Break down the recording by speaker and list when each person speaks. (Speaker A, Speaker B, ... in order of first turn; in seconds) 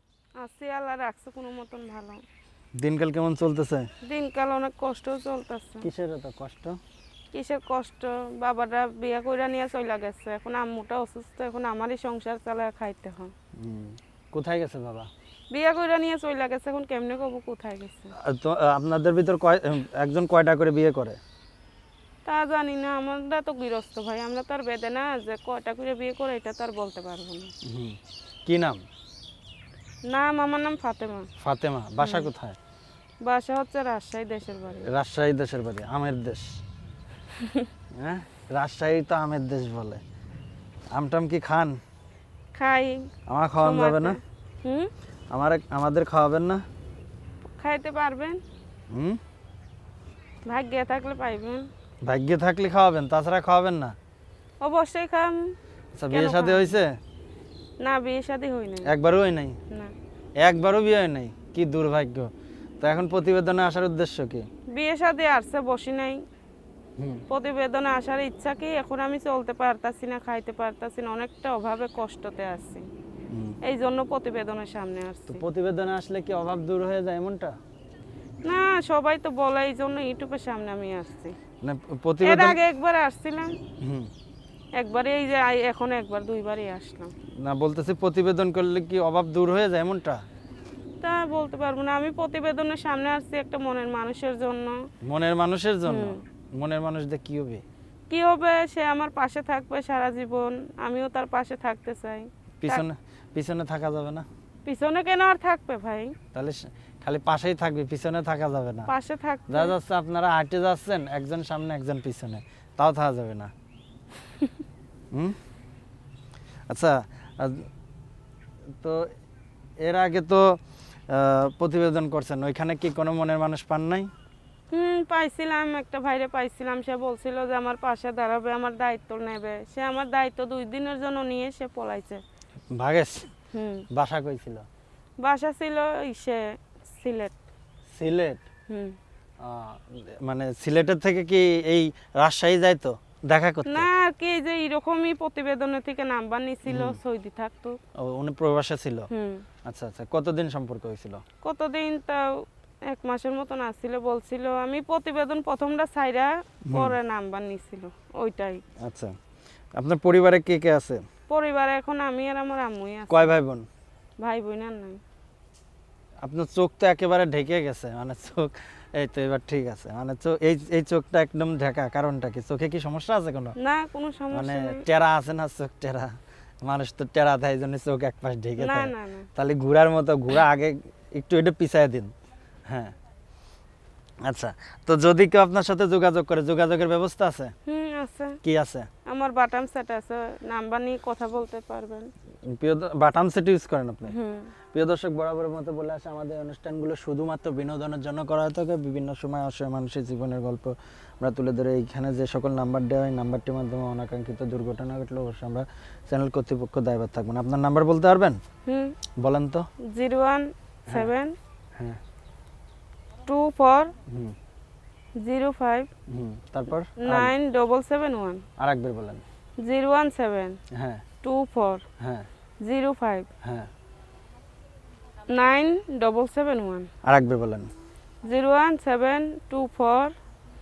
Speaker A: 0.4-2.2, 4.0-5.9, 7.3-13.3, 15.5-18.1, 22.2-27.5, 30.1-31.3, 32.0-32.3, 33.2-34.9, 37.4-37.7, 42.5-44.9, 47.5-48.4, 50.4-51.7, 54.6-55.5, 56.1-56.7, 57.8-58.9, 64.7-66.2, 67.3-72.8, 73.6-75.4, 78.4-81.3, 82.2-83.6, 84.8-87.1, 91.0-94.8, 95.8-96.2, 98.1-102.8, 104.6-106.1, 108.9-109.7, 124.7-132.2, 133.5-133.8, 135.2-137.3, 138.7-138.9, 143.7-147.8, 149.1-149.4, 151.4-158.6, 161.3-163.4, 164.2-165.0, 173.6-174.8, 178.6-179.3, 187.7-188.4, 189.1-192.1, 194.1-194.5, 208.7-208.9, 209.9-211.3, 213.2-213.9, 215.2-215.9, 217.0-218.4, 219.6-220.6, 221.2-221.8, 222.6-223.3, 225.3-226.9, 228.2-230.1
Speaker B: 2.8-3.9, 5.8-6.8, 13.6-15.1, 18.1-21.2, 27.6-28.8, 31.4-32.6, 34.9-36.6, 37.9-40.0, 40.9-41.8, 43.3-44.2, 45.3-46.6, 48.9-49.2, 52.0-54.0, 55.9-57.0, 58.8-59.6, 60.4-64.5, 67.0-67.2, 73.3-73.6, 75.3-77.5, 81.6-82.6, 83.8-84.1, 87.4-90.2, 95.0-97.6, 102.6-104.2, 106.3-108.9, 109.5-113.5, 116.7-117.7, 118.8-119.1, 119.8-124.1, 132.7-133.3, 133.9-134.7, 137.9-138.4, 139.4-143.9, 146.7-147.0, 148.0-149.1, 149.6-151.2, 156.7-156.9, 158.8-159.1, 159.7-161.0, 163.1-163.7, 166.2-173.6, 174.3-182.1, 182.7-182.9, 184.2-187.5, 188.4-188.9, 192.5-194.2, 194.7-208.4, 209.2-209.7, 214.1-214.3, 216.1-217.3, 218.6-219.2, 220.7-221.0, 222.0-222.3, 223.4-223.7, 227.0-227.7